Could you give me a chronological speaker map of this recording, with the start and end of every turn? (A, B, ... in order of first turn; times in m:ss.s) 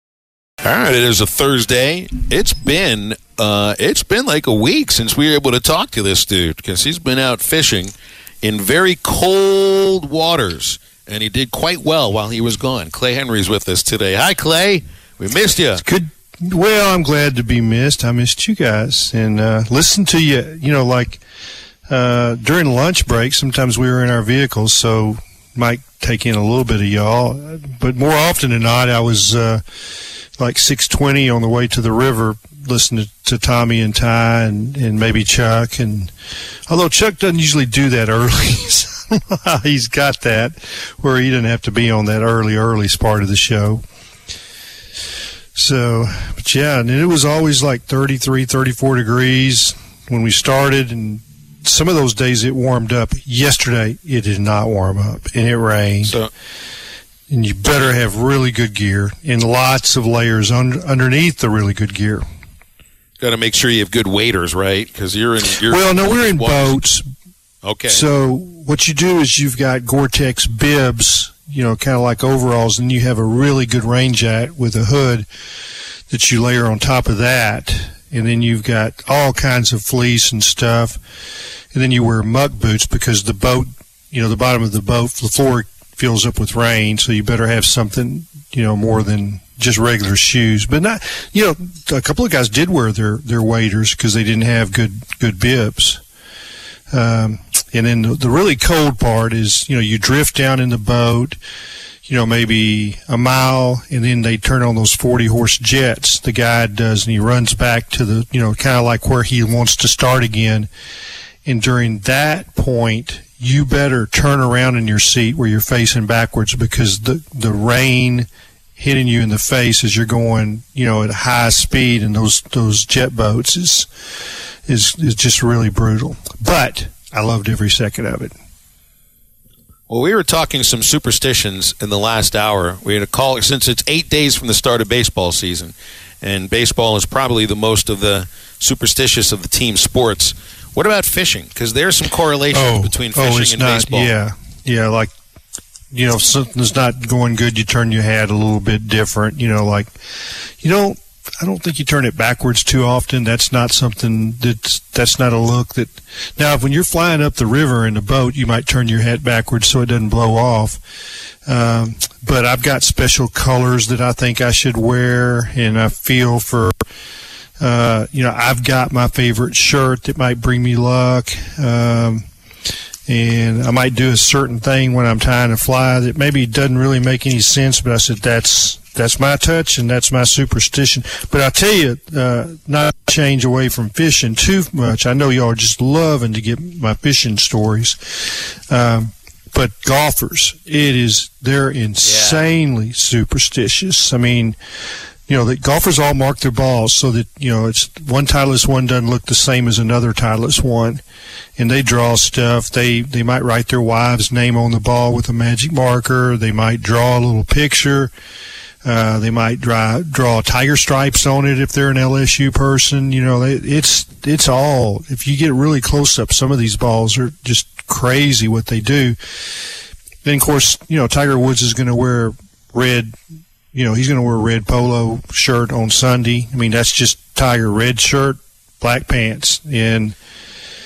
0:00.6-0:15.8 A
0:15.8-0:21.2 B
0:21.9-0:29.6 B
0:30.4-0:36.1 B
0:36.7-0:43.8 B
0:45.6-0:56.2 B
0:56.0-0:56.3 A
0:57.3-1:02.2 B
1:03.2-1:06.8 A
1:05.7-1:07.0 B
1:07.6-1:08.0 A
1:07.9-1:15.3 B
1:16.1-1:21.0 B
1:21.7-1:36.0 B
1:36.9-1:41.4 B
1:42.1-1:50.7 B
1:51.4-2:03.9 B
2:04.7-2:08.3 B
2:09.9-2:24.1 A
2:22.5-2:25.1 B
2:25.9-2:29.9 B
2:30.6-2:40.8 B
2:41.5-2:46.7 B
2:47.6-2:52.3 B
2:53.1-3:14.6 B
3:12.0-3:12.5 A
3:15.3-3:21.0 B
3:21.6-3:28.1 B
3:28.8-3:39.2 B
3:40.2-3:43.2 B
3:43.7-3:50.2 B